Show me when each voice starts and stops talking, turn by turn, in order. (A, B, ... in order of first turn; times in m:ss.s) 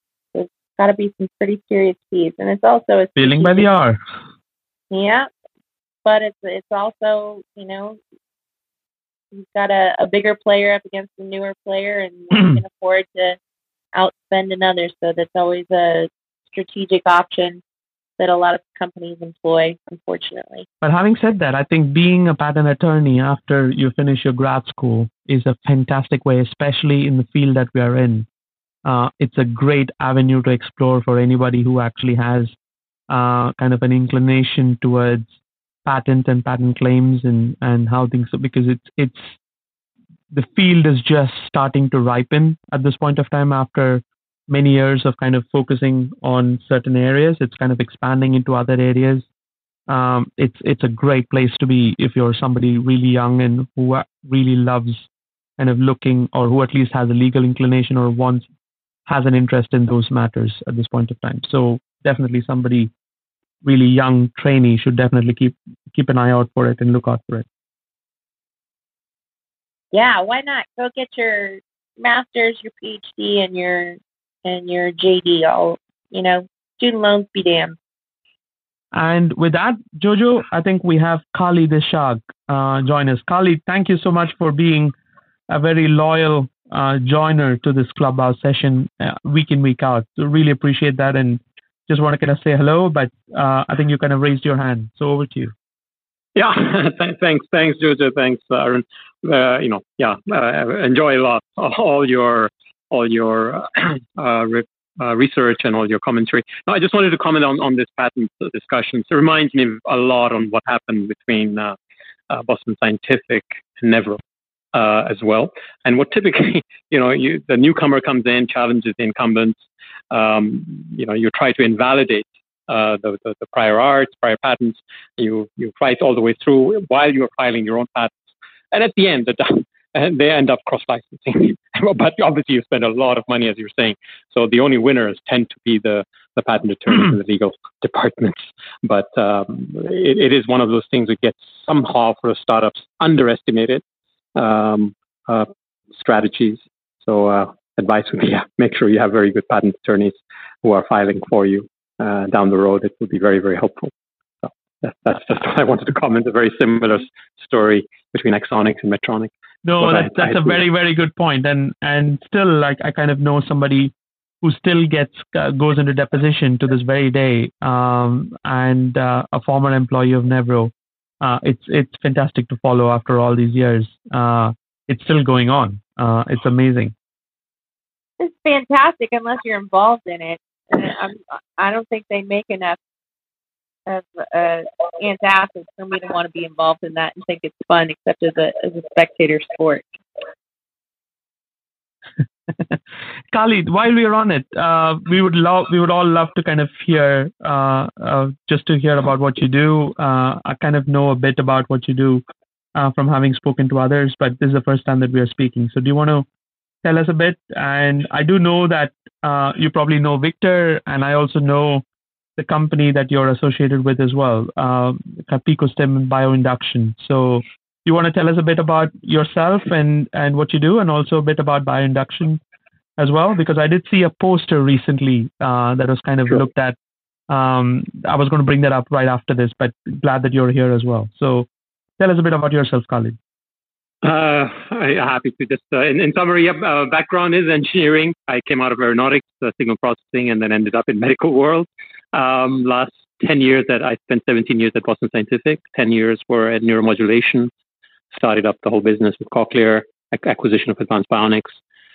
0:00.3-0:03.6 A
0:03.2-0:04.0 B
0:04.9-0:05.3 A
0:06.0-0:08.0 A
0:09.3-0:13.4 A
0:13.9-0:17.6 A
0:18.2-0:20.7 A
0:20.8-0:28.3 B
0:28.8-0:32.6 B
0:33.1-0:39.4 B
0:40.3-0:49.3 B
0:49.9-0:58.5 B
0:59.1-1:02.9 B
1:03.6-1:07.5 B
1:09.9-1:17.8 A
1:18.9-1:24.9 B
1:25.5-1:35.5 B
1:36.4-1:51.8 C
1:52.3-1:54.2 C
1:54.7-2:23.8 C
2:24.4-2:40.6 C
2:39.6-2:56.9 B
2:58.2-3:02.8 A
3:03.9-3:09.8 A
3:12.5-3:12.8 B
3:13.3-3:22.2 B
3:22.8-3:26.3 B
3:26.8-3:31.8 B
3:32.4-3:42.4 B
3:43.0-3:46.8 B
3:47.3-3:51.5 B
3:52.0-3:53.2 B
3:54.0-4:07.5 C
4:08.1-4:11.6 C